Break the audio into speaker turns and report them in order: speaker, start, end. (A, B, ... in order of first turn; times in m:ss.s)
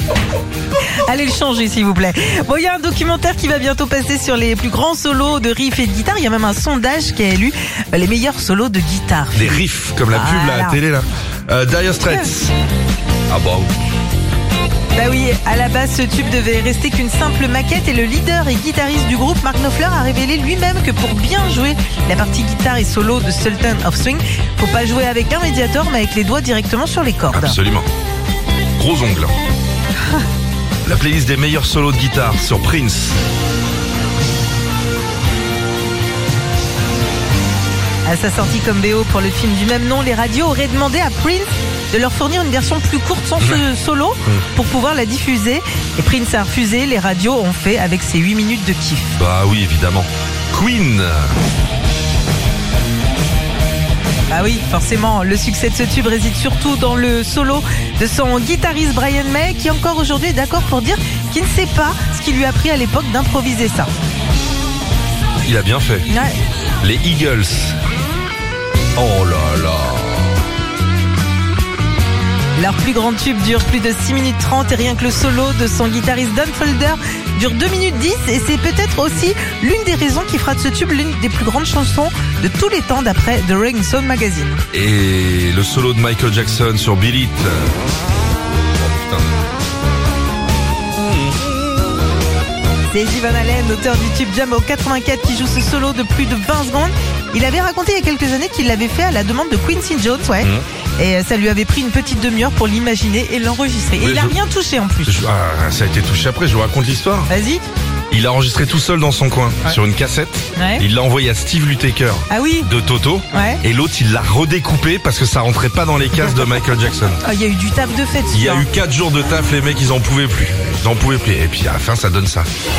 0:01.0-0:10.8 A
0:09.3-0:12.5 B
0:12.0-0:12.3 A
0:13.3-0:13.7 B
0:14.9-0:27.6 A
0:27.3-0:27.9 B
0:28.8-0:29.3 B
0:30.9-0:33.2 B
0:38.0-0:49.2 A
0:49.2-0:51.4 B
0:54.3-1:03.9 A
1:05.4-1:06.1 B
1:06.1-1:06.4 A
1:06.8-1:07.8 B
1:09.0-1:10.4 B
1:12.6-1:24.6 A
1:24.7-1:27.8 B
1:28.5-1:29.3 B
1:31.0-1:31.4 B
1:32.9-1:45.2 A
1:44.0-1:44.4 B
1:45.1-1:47.3 B
1:47.3-1:47.6 A
1:48.1-1:57.2 B
1:50.6-1:50.8 A
1:52.3-1:52.7 A
1:53.3-1:53.6 A
1:57.2-1:58.7 A
1:58.3-2:02.5 B